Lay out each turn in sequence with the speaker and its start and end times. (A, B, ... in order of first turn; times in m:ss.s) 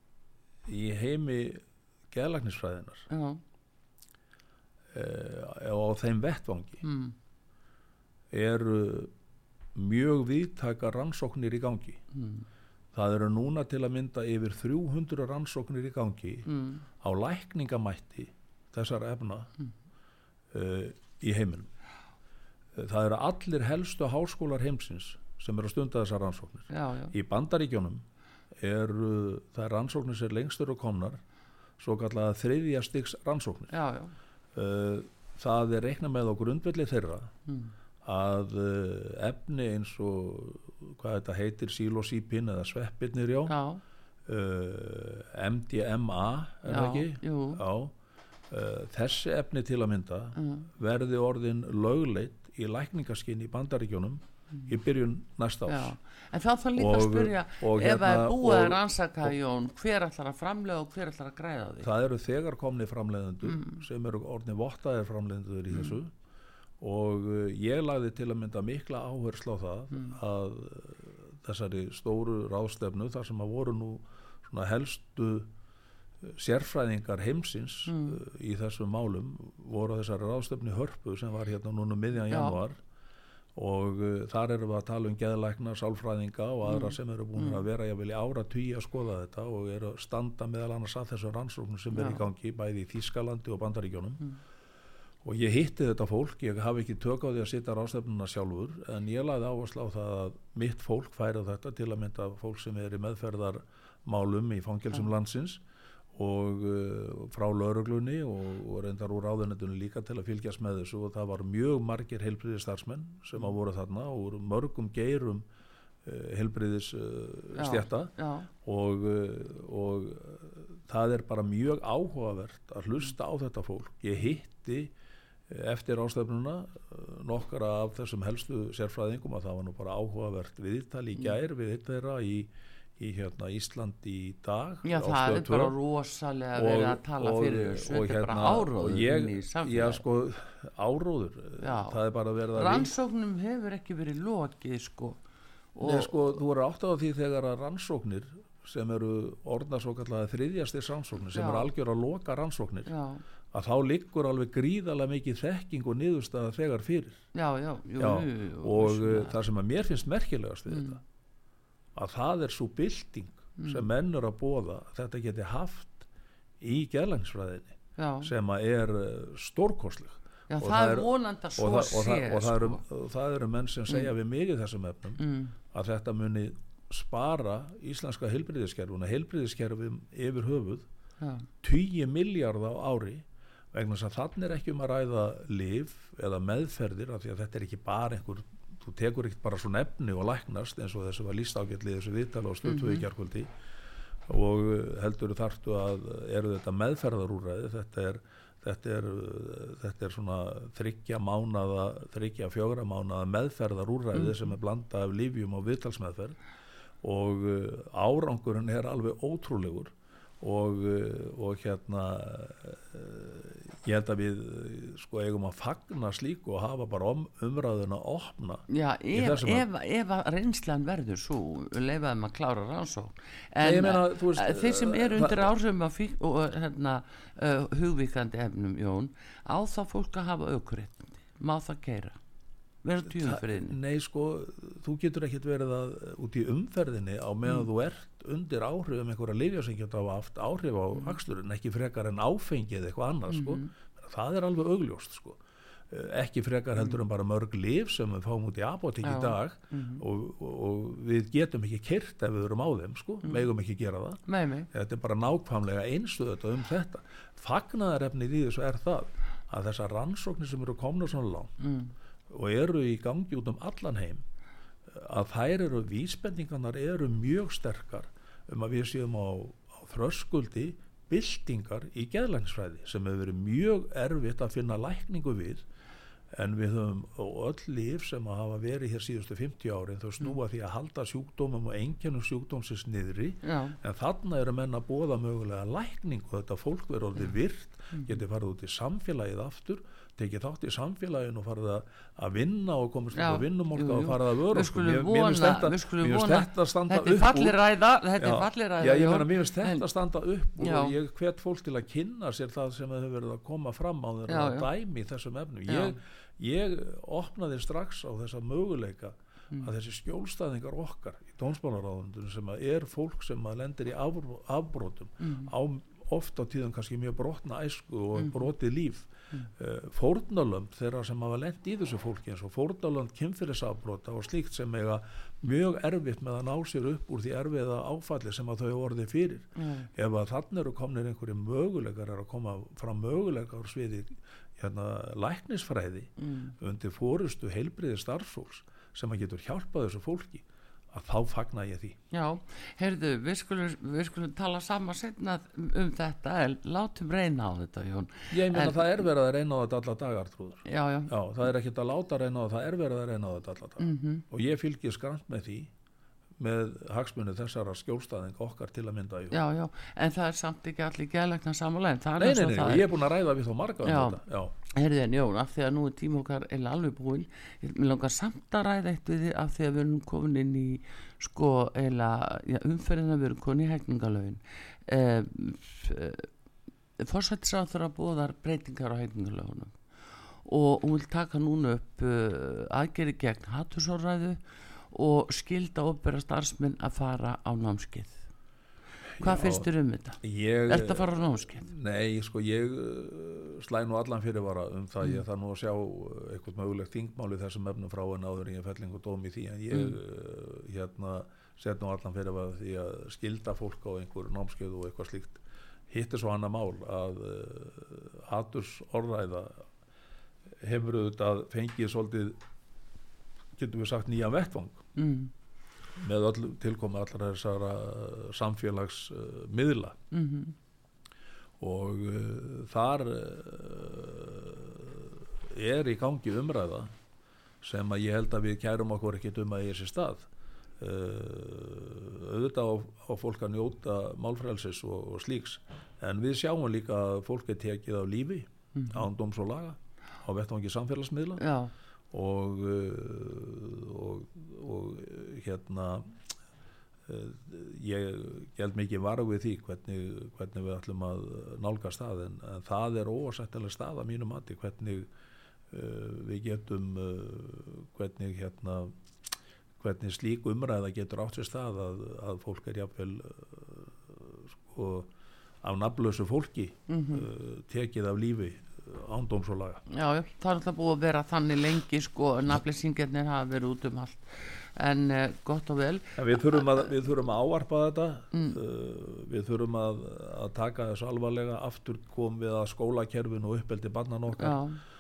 0:00.7-0:03.1 A
0:03.1-0:03.4 B
0:04.9-0:06.8 A
0:06.8-0:07.1 B
0:08.3-0:09.1 A
0:09.7-0:12.0 A
0:12.1-0:12.4 B
0:12.9-0:16.5 A
0:16.5-0:16.8 B
0:17.0-0:19.5 A
0:20.5-0:21.7 A
0:22.8-0:28.0 A
0:26.7-0:27.1 B
0:28.6-0:31.2 A
0:31.8-0:33.8 A
0:33.7-0:34.1 B
0:34.5-0:37.3 A
0:37.5-0:37.7 B
0:38.0-0:43.6 A
0:43.4-0:43.8 B
0:44.3-0:47.9 A
0:46.7-0:47.6 B
0:48.5-0:56.0 A
0:50.4-0:50.7 B
0:55.7-1:01.9 B
0:56.8-0:59.3 A
1:01.8-1:06.1 A
1:03.4-1:03.8 B
1:06.8-1:15.5 A
1:16.2-1:22.8 A
1:17.9-1:18.2 B
1:22.3-1:22.6 B
1:23.6-1:34.2 A
1:26.7-1:27.6 B
1:31.9-1:32.2 B
1:35.2-1:45.6 A
1:46.1-1:55.4 A
1:56.0-2:04.9 A
1:57.6-1:58.5 B
2:05.5-2:15.8 A
2:14.8-2:20.0 B
2:16.6-2:22.9 A
2:21.6-2:22.0 B
2:22.5-2:25.2 B
2:25.8-2:26.2 B
2:25.8-2:32.9 A
2:31.3-2:31.7 B
2:32.9-2:33.2 B
2:33.5-2:37.3 A
2:37.3-2:39.4 B
2:38.0-2:41.0 A
2:40.7-2:41.0 B
2:42.0-2:46.1 A
2:43.6-2:43.8 B
2:46.6-3:00.9 A
2:48.0-2:48.3 B
2:50.5-2:52.8 B
2:55.2-2:55.6 B
3:01.2-3:01.5 B
3:01.6-3:13.5 A
3:12.7-3:13.0 B
3:14.3-3:26.4 A
3:24.1-3:24.4 B
3:27.0-3:39.7 A
3:38.7-3:52.2 B
3:43.6-3:45.5 A
3:52.8-3:53.8 B
3:53.0-4:21.6 A
4:03.3-4:03.7 B
4:09.0-4:10.0 B
4:14.3-4:14.7 B
4:21.6-4:21.9 B
4:22.3-4:24.2 A
4:24.9-4:35.6 A
4:36.3-4:57.6 A
4:43.4-4:43.8 B
4:53.1-4:59.8 B
4:58.2-5:42.0 A
5:00.6-5:01.0 B
5:04.3-5:04.7 B
5:05.7-5:06.0 B
5:15.2-5:15.5 B
5:18.2-5:18.5 B
5:29.6-5:29.9 B
5:36.2-5:36.6 B
5:42.1-5:48.9 B
5:48.3-5:55.7 A
5:50.6-5:51.1 B
5:53.8-5:54.3 B
5:56.4-5:59.4 A
5:59.3-6:02.9 B
6:02.2-6:04.6 A
6:03.8-6:04.2 B
6:04.7-6:16.3 B
6:17.0-6:19.8 B
6:20.4-6:24.4 B
6:24.9-6:28.3 B
6:29.2-6:29.7 A
6:29.2-6:31.7 B
6:30.2-6:49.7 A
6:39.7-6:40.0 B
6:50.6-6:52.4 A
6:53.6-6:54.9 A
6:55.0-6:55.3 B
6:56.0-7:00.0 A
7:00.1-7:00.6 B
7:01.6-7:06.9 A
7:07.6-7:10.3 A
7:10.8-7:21.4 A
7:18.8-7:19.1 B
7:21.4-7:21.7 B
7:22.1-7:26.1 A
7:27.1-7:35.1 A
7:35.7-7:39.0 A
7:39.8-7:45.1 A
7:45.6-7:49.8 A
7:46.9-7:47.3 B
7:49.9-7:56.2 B
7:56.2-8:04.6 A
7:58.3-7:58.6 B
8:04.4-8:04.8 B